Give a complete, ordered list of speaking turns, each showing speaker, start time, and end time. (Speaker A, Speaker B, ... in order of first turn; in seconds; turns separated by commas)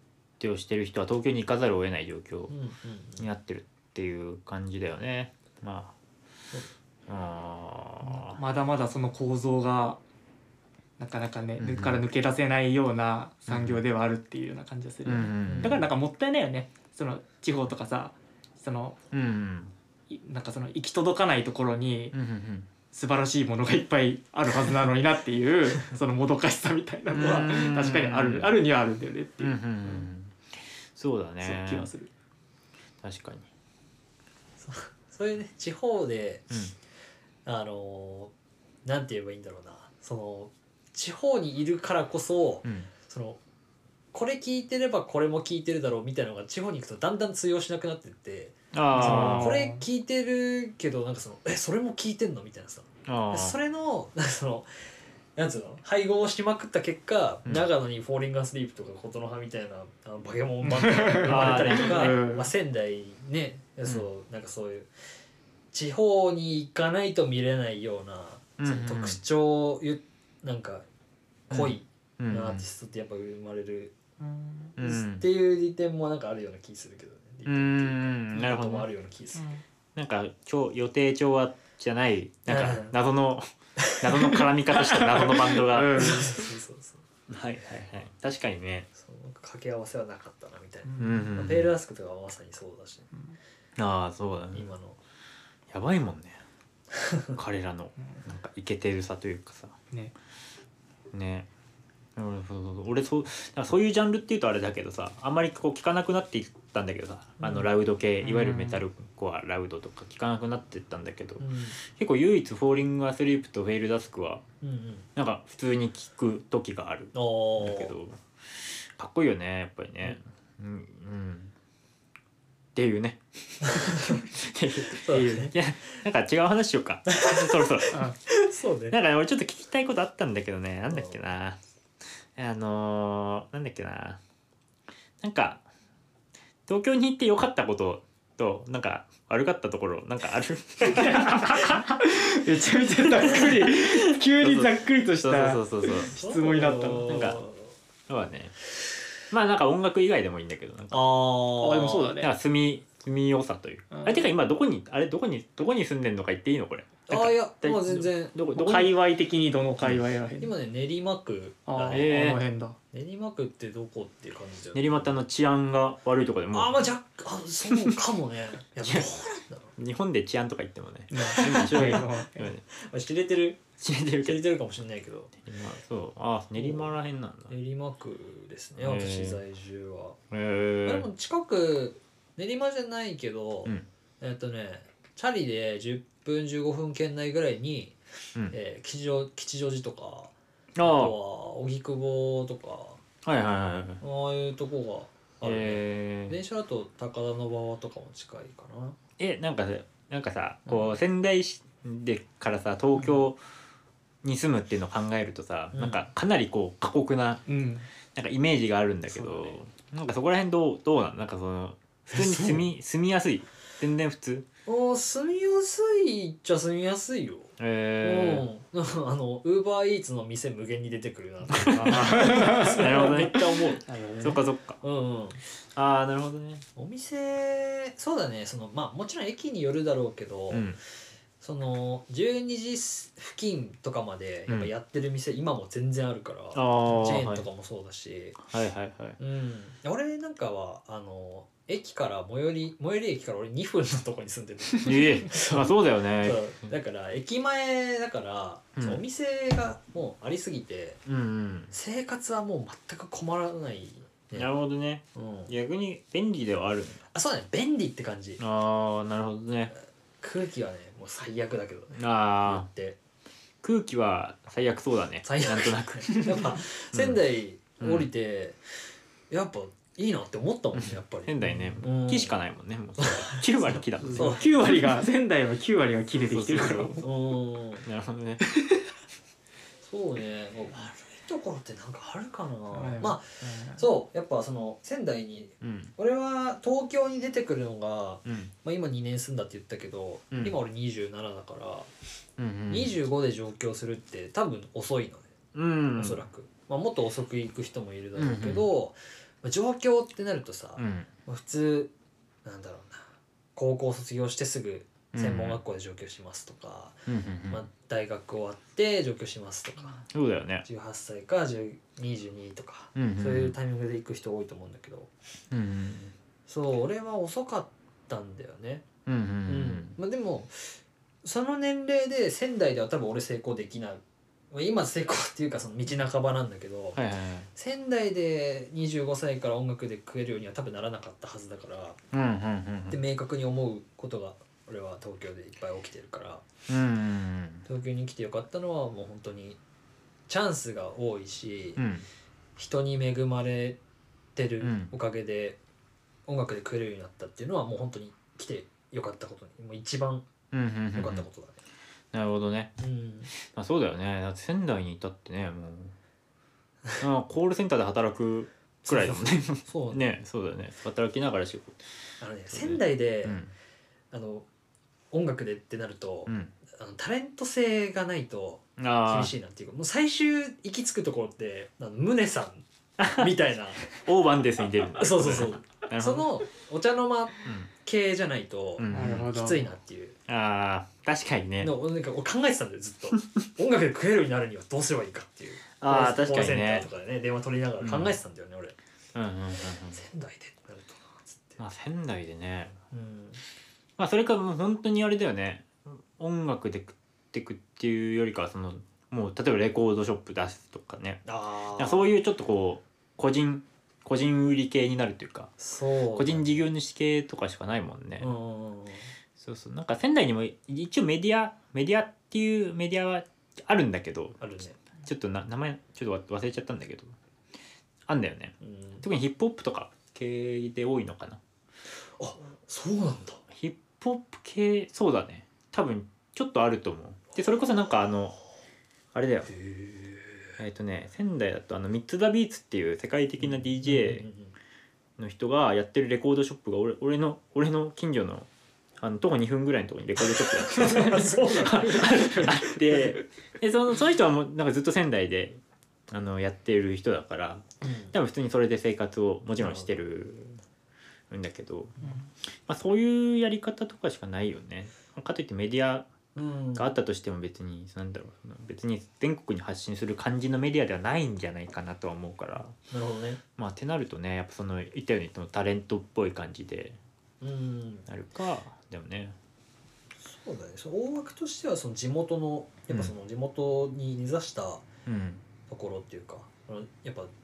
Speaker A: 0.4-2.5, Speaker B: 2.5-3.3, Speaker A: 3.2-6.0, Speaker A: 7.1-8.4, Speaker C: 8.0-10.0, Speaker C: 11.0-19.0, Speaker A: 11.6-12.0, Speaker A: 13.5-13.8, Speaker A: 15.1-15.9, Speaker B: 15.4-15.8, Speaker A: 19.1-19.7, Speaker C: 20.1-22.1, Speaker A: 22.1-22.7, Speaker C: 22.9-29.9, Speaker A: 27.1-28.6, Speaker A: 29.4-31.9, Speaker C: 31.4-32.1, Speaker A: 33.0-33.5, Speaker B: 34.6-36.6, Speaker B: 37.5-38.3, Speaker B: 38.9-43.4, Speaker B: 44.1-54.7, Speaker A: 48.7-49.6, Speaker C: 48.9-49.8, Speaker A: 53.1-53.6, Speaker B: 55.4-64.9, Speaker C: 60.6-62.5, Speaker A: 61.3-62.2, Speaker B: 65.7-70.8, Speaker A: 68.6-69.2, Speaker B: 71.5-73.9, Speaker A: 71.5-72.7, Speaker C: 74.2-74.7, Speaker A: 74.8-75.2, Speaker B: 74.8-79.5, Speaker A: 77.5-78.9, Speaker C: 79.3-79.6, Speaker A: 80.0-83.5, Speaker B: 82.5-82.9, Speaker B: 83.8-84.4, Speaker A: 84.0-86.2, Speaker C: 84.7-86.5, Speaker B: 85.9-87.0, Speaker A: 87.3-88.9, Speaker B: 89.0-93.1, Speaker C: 90.8-91.3, Speaker A: 91.0-91.7, Speaker C: 93.1-93.4, Speaker A: 93.8-94.7, Speaker B: 94.5-95.0, Speaker A: 95.7-96.4, Speaker B: 96.9-97.4, Speaker A: 97.3-99.8, Speaker C: 98.0-98.2, Speaker A: 101.1-101.5, Speaker A: 102.2-114.4, Speaker B: 107.4-107.7, Speaker C: 108.2-108.8, Speaker B: 111.4-111.8, Speaker B: 114.6-115.1, Speaker A: 115.2-121.5, Speaker B: 117.1-117.9, Speaker A: 122.8-128.1, Speaker B: 123.7-124.2, Speaker B: 124.8-125.5, Speaker C: 125.1-125.5, Speaker B: 127.1-129.0, Speaker C: 127.9-128.2, Speaker A: 128.9-131.6, Speaker B: 130.9-131.2, Speaker A: 132.4-134.2, Speaker A: 135.2-135.6, Speaker A: 136.7-141.7, Speaker C: 140.8-147.2, Speaker A: 143.2-146.2, Speaker B: 146.0-147.7, Speaker A: 147.1-147.4, Speaker A: 148.1-148.6, Speaker A: 149.3-151.1, Speaker B: 150.9-152.1, Speaker C: 151.6-152.3, Speaker A: 152.2-158.9, Speaker C: 153.9-154.3, Speaker B: 157.1-158.4, Speaker C: 158.5-160.5, Speaker B: 160.4-162.2, Speaker C: 161.7-162.8, Speaker A: 161.9-162.4, Speaker B: 162.9-165.1, Speaker A: 164.7-166.8, Speaker B: 166.5-169.7, Speaker A: 167.7-168.0, Speaker A: 169.8-172.6, Speaker C: 171.1-172.5, Speaker B: 171.3-172.1, Speaker B: 172.7-173.6, Speaker A: 173.8-174.4, Speaker B: 174.2-175.4, Speaker A: 175.4-177.5, Speaker B: 176.6-177.0, Speaker B: 177.5-180.2, Speaker A: 178.8-179.4, Speaker A: 180.3-181.1, Speaker B: 180.8-188.0, Speaker B: 188.5-193.0, Speaker A: 190.8-191.2, Speaker A: 193.2-194.0, Speaker B: 194.0-199.0, Speaker A: 195.4-196.4, Speaker A: 199.2-203.4, Speaker B: 200.7-200.9, Speaker B: 202.9-203.3, Speaker A: 204.2-207.4, Speaker B: 205.7-206.1, Speaker C: 207.5-207.9, Speaker A: 208.1-214.5, Speaker B: 209.2-209.5, Speaker B: 212.1-212.7, Speaker B: 214.7-223.8, Speaker A: 217.6-218.4, Speaker A: 221.5-224.8, Speaker C: 221.8-223.3, Speaker C: 223.8-224.4, Speaker B: 224.8-225.4, Speaker A: 225.7-226.7, Speaker B: 226.8-230.8, Speaker A: 230.5-230.8, Speaker B: 231.4-238.5, Speaker A: 236.5-237.5, Speaker A: 238.5-239.2, Speaker B: 239.2-251.0, Speaker A: 244.8-246.7, Speaker A: 248.8-249.0, Speaker A: 251.1-251.7, Speaker B: 251.7-254.5, Speaker A: 254.3-257.0, Speaker B: 255.2-255.5, Speaker B: 257.1-258.4, Speaker A: 258.4-259.7, Speaker B: 260.2-263.0, Speaker A: 262.0-262.7, Speaker A: 263.6-267.2, Speaker B: 265.2-272.4, Speaker A: 267.8-268.1, Speaker A: 270.7-274.4, Speaker B: 273.0-274.5, Speaker C: 274.0-277.1, Speaker A: 276.1-277.1, Speaker B: 277.0-277.9, Speaker A: 277.8-278.9, Speaker B: 279.8-291.9, Speaker C: 282.7-283.8, Speaker A: 285.6-285.9, Speaker A: 288.3-288.5, Speaker A: 290.3-290.6, Speaker A: 292.4-292.9, Speaker B: 292.7-295.3, Speaker A: 295.5-296.2, Speaker B: 295.9-301.9, Speaker A: 298.1-298.7, Speaker A: 300.8-301.1, Speaker B: 302.4-310.1, Speaker A: 305.1-305.6, Speaker A: 307.1-307.6, Speaker A: 310.1-310.6, Speaker B: 310.6-315.1, Speaker A: 313.0-313.6, Speaker A: 315.5-316.1, Speaker B: 316.5-318.9, Speaker A: 319.1-320.0, Speaker B: 319.5-327.0, Speaker A: 326.9-327.5, Speaker B: 327.6-332.0, Speaker A: 332.1-333.0, Speaker B: 332.9-336.4, Speaker A: 336.7-337.7, Speaker B: 337.7-339.6, Speaker B: 340.3-341.8, Speaker A: 341.8-342.1, Speaker B: 342.6-343.8, Speaker B: 344.4-345.6, Speaker A: 344.6-344.9, Speaker B: 346.3-350.3, Speaker A: 350.5-351.3, Speaker B: 350.9-351.6, Speaker A: 352.1-352.7, Speaker B: 352.8-353.3, Speaker A: 353.4-355.9, Speaker A: 357.0-361.8, Speaker B: 358.9-360.1, Speaker B: 362.2-363.4, Speaker A: 362.5-363.5, Speaker B: 364.1-364.5, Speaker B: 365.1-374.0, Speaker A: 366.3-366.5, Speaker A: 368.8-369.3, Speaker A: 373.0-373.3, Speaker A: 373.9-376.3, Speaker B: 375.0-380.2, Speaker A: 378.8-379.3, Speaker C: 378.9-379.6, Speaker A: 380.3-381.7, Speaker B: 381.6-388.8, Speaker A: 385.8-386.9, Speaker A: 387.8-388.2, Speaker A: 389.1-390.0, Speaker B: 389.9-391.6, Speaker A: 391.6-392.8, Speaker B: 392.9-393.4, Speaker A: 394.0-401.2, Speaker B: 401.3-402.1, Speaker A: 401.8-405.5, Speaker B: 405.6-406.5, Speaker A: 406.1-408.3, Speaker B: 408.2-409.1, Speaker A: 409.4-414.4, Speaker B: 414.4-414.8, Speaker A: 415.0-417.1, Speaker A: 418.1-421.4, Speaker B: 418.6-419.1, Speaker B: 422.2-423.4, Speaker A: 423.5-428.4, Speaker A: 429.1-429.5, Speaker B: 429.5-430.6, Speaker A: 430.6-434.3, Speaker B: 433.4-434.6, Speaker A: 435.2-450.6, Speaker B: 440.4-442.6, Speaker C: 440.8-441.1, Speaker C: 441.8-442.8, Speaker B: 447.8-448.1, Speaker B: 449.6-450.0, Speaker A: 451.3-452.0, Speaker C: 452.0-452.3, Speaker A: 452.7-456.1, Speaker B: 456.4-456.9, Speaker A: 456.8-462.8, Speaker B: 462.8-463.4, Speaker A: 463.6-467.0, Speaker B: 467.4-468.1, Speaker A: 468.1-469.4, Speaker B: 470.2-474.9, Speaker A: 475.1-475.4, Speaker B: 475.7-477.3